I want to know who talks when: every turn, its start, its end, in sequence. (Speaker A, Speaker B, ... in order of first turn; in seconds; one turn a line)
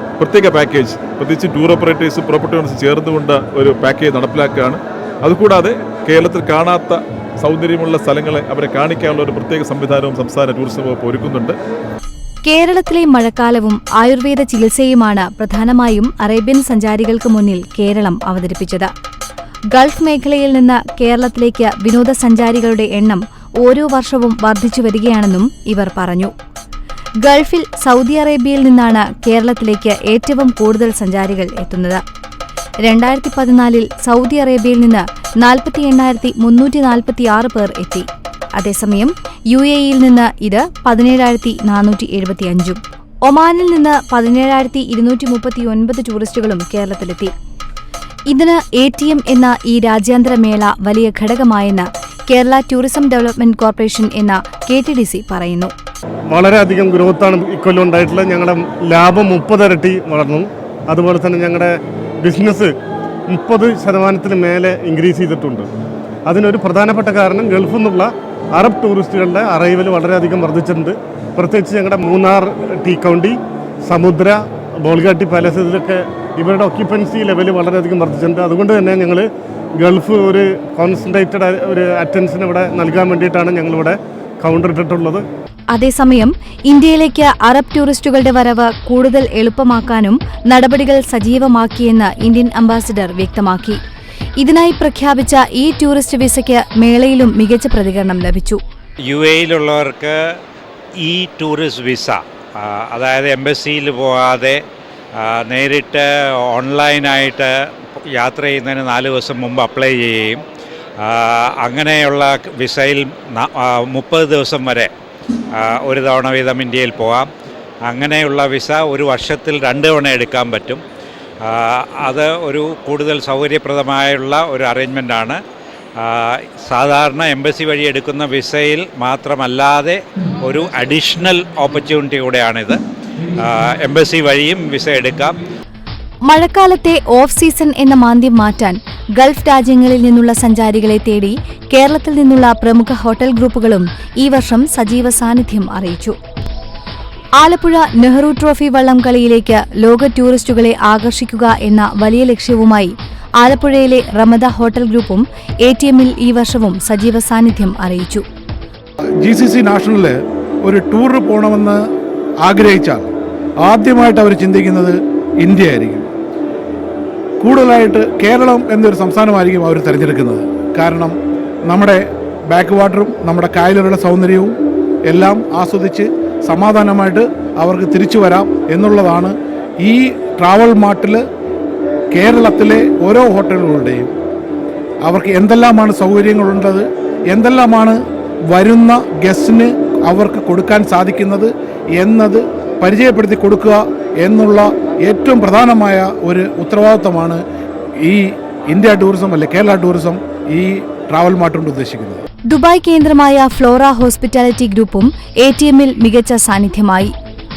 Speaker A: 0.2-11.6
Speaker B: 12.5-18.9
Speaker B: 19.7-26.3
Speaker B: 27.2-32.0
Speaker B: 32.9-38.1
Speaker B: 38.6-47.3
Speaker B: 48.3-55.7
Speaker C: 56.3-62.7
Speaker C: 63.3-65.7
Speaker C: 66.3-85.2
Speaker B: 85.7-93.8
Speaker B: 94.4-98.6
Speaker D: 99.1-100.2
Speaker D: 101.0-104.6
Speaker D: 105.2-107.5
Speaker D: 108.2-110.4
Speaker D: 111.0-114.9
Speaker D: 115.5-117.3
Speaker D: 117.9-120.8
Speaker D: 121.4-125.4
Speaker D: 126.0-132.8
Speaker D: 133.4-135.4
Speaker B: 136.3-146.2
Speaker B: 147.4-158.2
Speaker E: 159.2-161.8
Speaker E: 162.4-163.1
Speaker E: 163.6-166.1
Speaker E: 167.4-171.2
Speaker E: 171.7-174.6
Speaker E: 175.1-181.2
Speaker E: 182.1-184.1
Speaker E: 185.0-188.0
Speaker E: 188.5-197.4
Speaker E: 198.1-202.2
Speaker B: 202.5-207.1